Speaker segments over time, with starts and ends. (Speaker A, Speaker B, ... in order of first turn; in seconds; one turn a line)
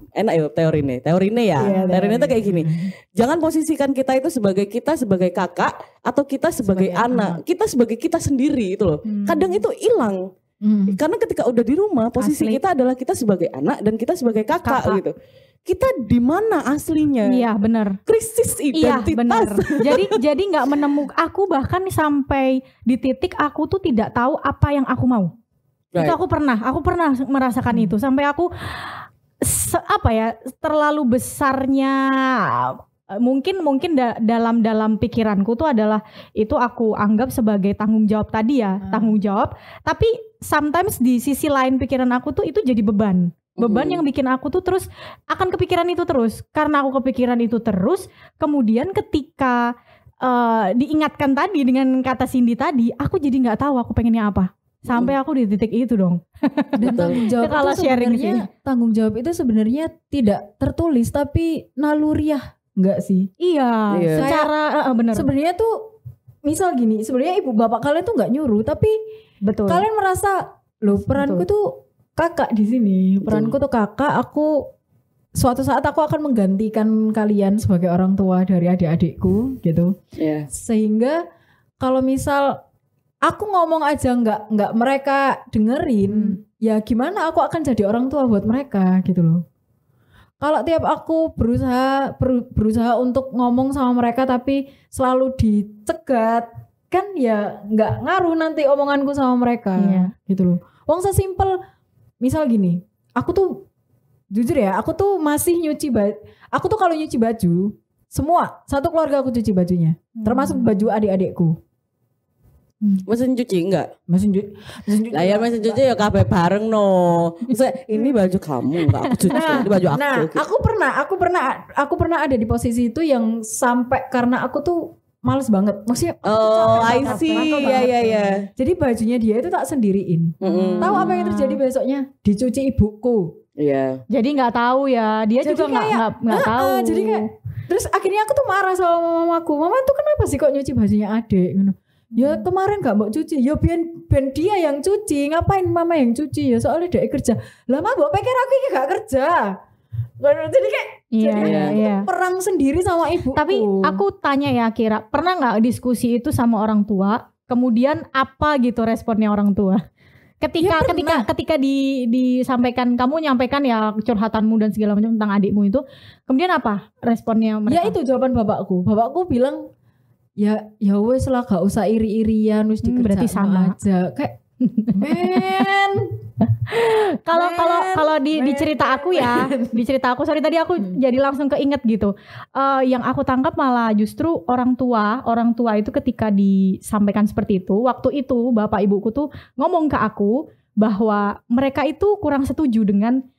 Speaker A: 0.2-10.2
Speaker B: 1.6-2.9
Speaker C: 1.6-2.1
Speaker B: 6.6-7.4
Speaker C: 9.1-9.4
Speaker B: 10.6-11.0
Speaker A: 10.9-15.1
Speaker C: 12.2-12.6
Speaker C: 14.6-15.0
Speaker A: 15.7-17.4
Speaker C: 17.2-18.0
Speaker A: 18.1-20.1
Speaker C: 18.7-25.3
Speaker C: 26.0-49.7
Speaker B: 27.7-27.9
Speaker B: 38.8-39.1
Speaker A: 43.6-44.0
Speaker C: 50.2-58.5
Speaker B: 56.8-63.3
Speaker A: 56.9-57.2
Speaker C: 63.4-65.3
Speaker A: 63.9-64.3
Speaker B: 64.2-64.5
Speaker B: 65.1-65.8
Speaker B: 66.5-69.0
Speaker C: 69.4-69.8
Speaker B: 69.7-74.6
Speaker C: 71.2-71.4
Speaker A: 73.2-73.5
Speaker B: 75.4-79.9
Speaker A: 80.2-80.5
Speaker B: 80.5-81.2
Speaker B: 81.8-82.6
Speaker B: 83.2-89.4
Speaker B: 90.4-101.6
Speaker C: 99.8-100.1
Speaker B: 102.2-103.6
Speaker B: 104.3-111.5
Speaker C: 110.2-110.7
Speaker A: 113.1-113.9
Speaker B: 114.1-115.8
Speaker A: 115.1-120.4
Speaker C: 118.9-119.6
Speaker B: 119.3-133.3
Speaker A: 126.2-128.5
Speaker C: 126.8-127.9
Speaker A: 130.4-131.1
Speaker C: 130.4-131.6
Speaker A: 133.6-134.0
Speaker C: 134.1-137.2
Speaker B: 135.4-149.5
Speaker B: 150.2-154.0
Speaker C: 151.1-152.1
Speaker A: 151.4-151.8
Speaker C: 153.3-159.8
Speaker C: 160.4-167.9
Speaker B: 160.6-161.3
Speaker B: 167.7-169.6
Speaker B: 170.4-174.4
Speaker C: 172.8-173.8
Speaker C: 174.7-175.6
Speaker B: 174.9-176.2
Speaker C: 176.6-193.2
Speaker B: 177.3-179.8